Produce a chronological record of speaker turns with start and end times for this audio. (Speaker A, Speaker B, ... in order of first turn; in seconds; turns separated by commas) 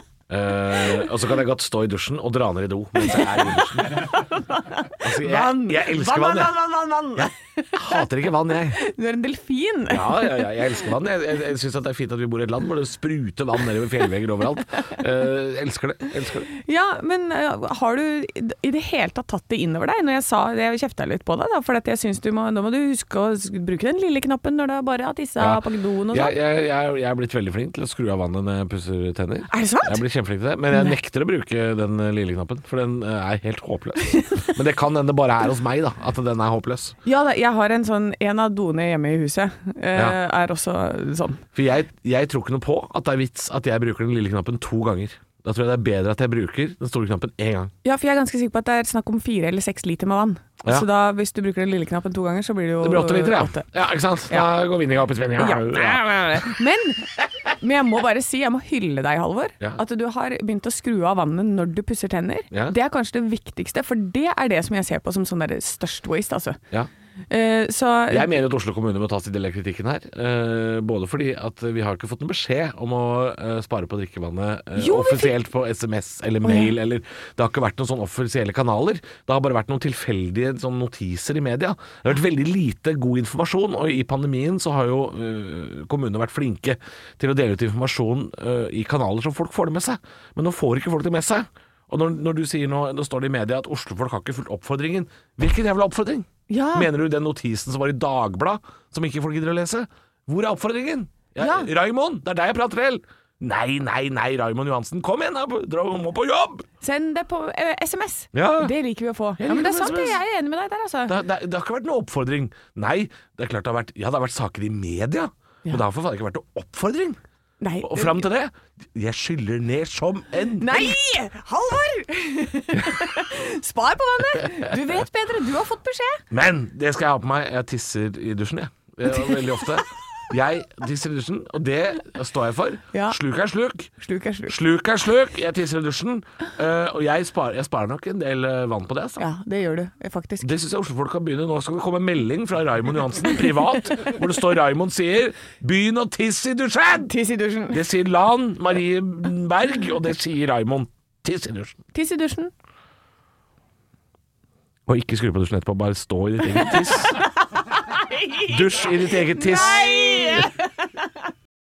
Speaker A: 0.3-4.1, Speaker B: 3.0-8.0, Speaker A: 5.0-6.6, Speaker A: 7.1-8.8, Speaker B: 8.8-10.5, Speaker A: 9.9-16.5, Speaker B: 16.5-26.3, Speaker A: 25.4-37.0, Speaker B: 29.5-30.0, Speaker B: 30.7-31.0, Speaker B: 37.0-41.4, Speaker A: 41.5-47.7, Speaker B: 47.8-53.7, Speaker A: 52.8-56.6, Speaker B: 55.4-66.6, Speaker B: 67.3-68.3, Speaker A: 68.1-106.7, Speaker B: 74.8-75.3, Speaker B: 76.4-76.7, Speaker B: 96.5-96.9, Speaker B: 101.4-101.7, Speaker B: 106.8-111.2, Speaker A: 108.3-108.7, Speaker A: 109.4-110.2, Speaker A: 111.1-117.2, Speaker B: 117.6-118.2, Speaker A: 117.8-121.0, Speaker B: 120.6-126.2, Speaker A: 122.7-123.2, Speaker A: 124.4-124.7, Speaker A: 126.3-133.9, Speaker B: 129.1-129.8, Speaker B: 132.9-133.2, Speaker B: 134.0-134.6, Speaker A: 134.5-139.2, Speaker B: 139.2-140.5, Speaker A: 140.4-147.1, Speaker B: 147.0-147.8, Speaker A: 147.7-151.8, Speaker B: 151.9-152.5, Speaker A: 154.9-157.2, Speaker B: 156.7-160.7, Speaker A: 158.5-160.5